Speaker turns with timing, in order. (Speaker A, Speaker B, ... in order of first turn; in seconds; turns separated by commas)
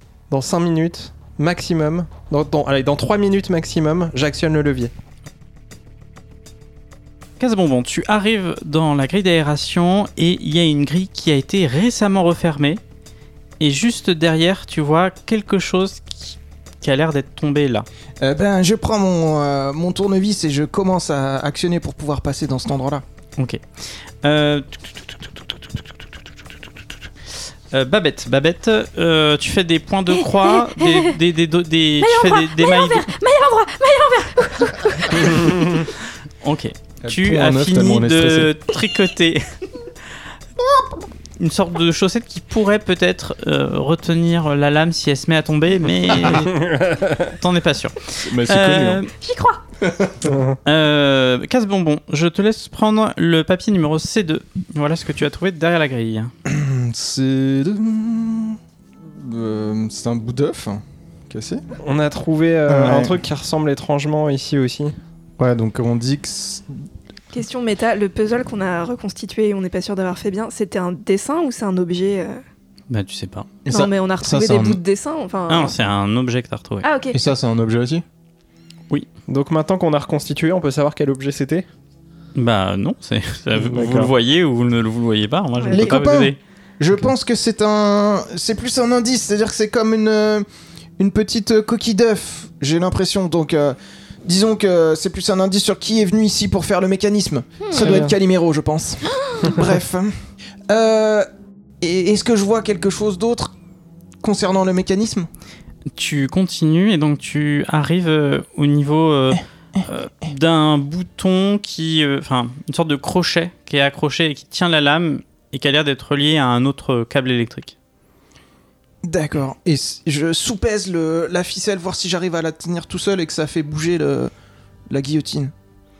Speaker A: 0.3-4.9, Speaker B: 7.4-12.8, Speaker B: 13.6-17.9, Speaker C: 18.2-23.0, Speaker B: 23.4-25.8, Speaker B: 27.7-33.1, Speaker D: 30.4-31.1, Speaker D: 32.0-35.6, Speaker B: 35.1-35.9, Speaker B: 36.4-39.5, Speaker C: 37.0-38.5, Speaker B: 41.4-46.6, Speaker A: 46.3-47.1, Speaker B: 47.1-49.1, Speaker C: 48.2-49.0, Speaker D: 49.2-49.6, Speaker C: 49.8-50.2, Speaker A: 50.2-50.6, Speaker B: 50.6-56.3, Speaker C: 56.4-61.6, Speaker A: 61.8-65.0, Speaker C: 62.6-63.2, Speaker C: 65.4-66.8, Speaker D: 67.3-72.4, Speaker B: 72.9-73.5, Speaker C: 73.6-74.8, Speaker D: 73.7-75.7, Speaker B: 75.5-76.9, Speaker D: 76.8-77.2, Speaker C: 77.1-78.0, Speaker A: 79.3-81.7, Speaker B: 82.3-86.4, Speaker A: 83.5-84.1, Speaker D: 85.6-85.9, Speaker C: 85.7-90.5, Speaker C: 91.0-101.3, Speaker D: 97.6-97.9, Speaker A: 97.8-98.1, Speaker C: 101.8-103.5, Speaker C: 104.2-105.3, Speaker B: 105.9-117.8, Speaker C: 119.0-124.3, Speaker C: 124.9-125.5